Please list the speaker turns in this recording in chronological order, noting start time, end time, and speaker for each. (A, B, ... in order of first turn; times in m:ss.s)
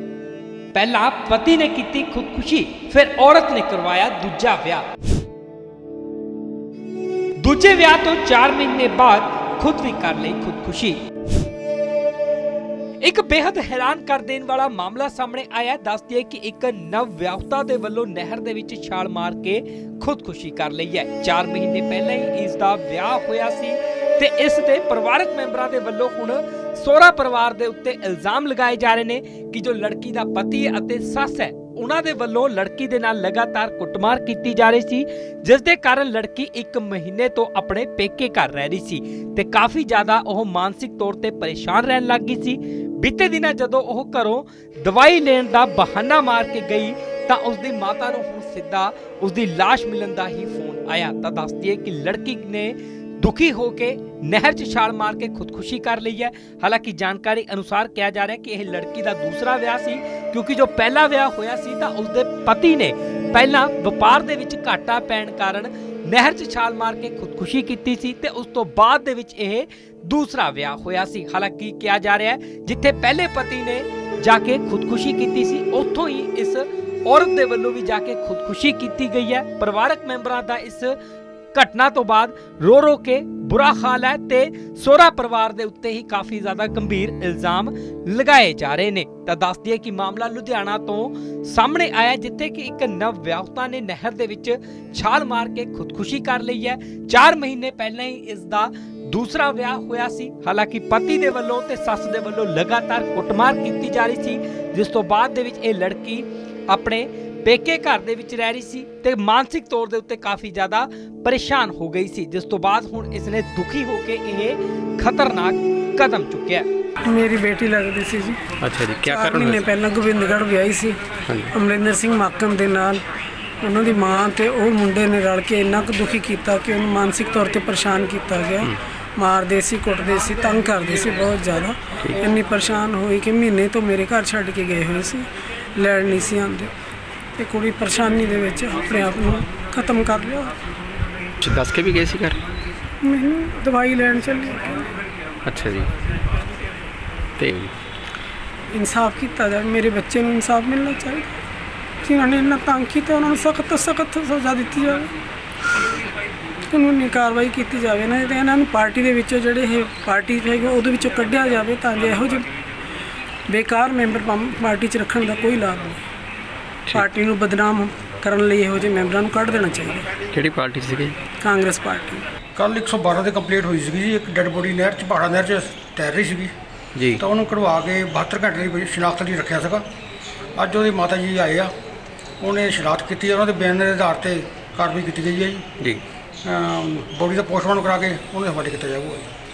0:00.7-0:04.9 A
0:07.4-0:11.0 A
0:13.0-1:21.0 A
1:21.5-1:56.7 A
1:57.1-1:58.4 B
1:58.6-1:59.6 C
1:59.0-2:01.0 B
2:01.3-2:01.5 C
2:01.5-2:03.0 B
2:03.6-2:16.7 B
2:17.4-2:20.5 B
2:21.4-2:22.4 C
2:23.0-2:24.9 B
2:25.4-2:25.9 C
2:27.4-2:27.7 C
2:28.7-2:31.4 B
2:32.0-2:35.1 B
2:36.7-2:42.5 B
2:43.5-2:46.0 B
2:46.9-2:50.0 B
2:50.3-2:51.2 C
2:51.4-2:52.2 B
2:52.6-2:56.5 D
2:57.0-2:57.2 C
2:57.2-2:59.8 D
3:00.6-3:01.7 D
3:02.4-3:05.7 D
3:06.4-3:09.3 D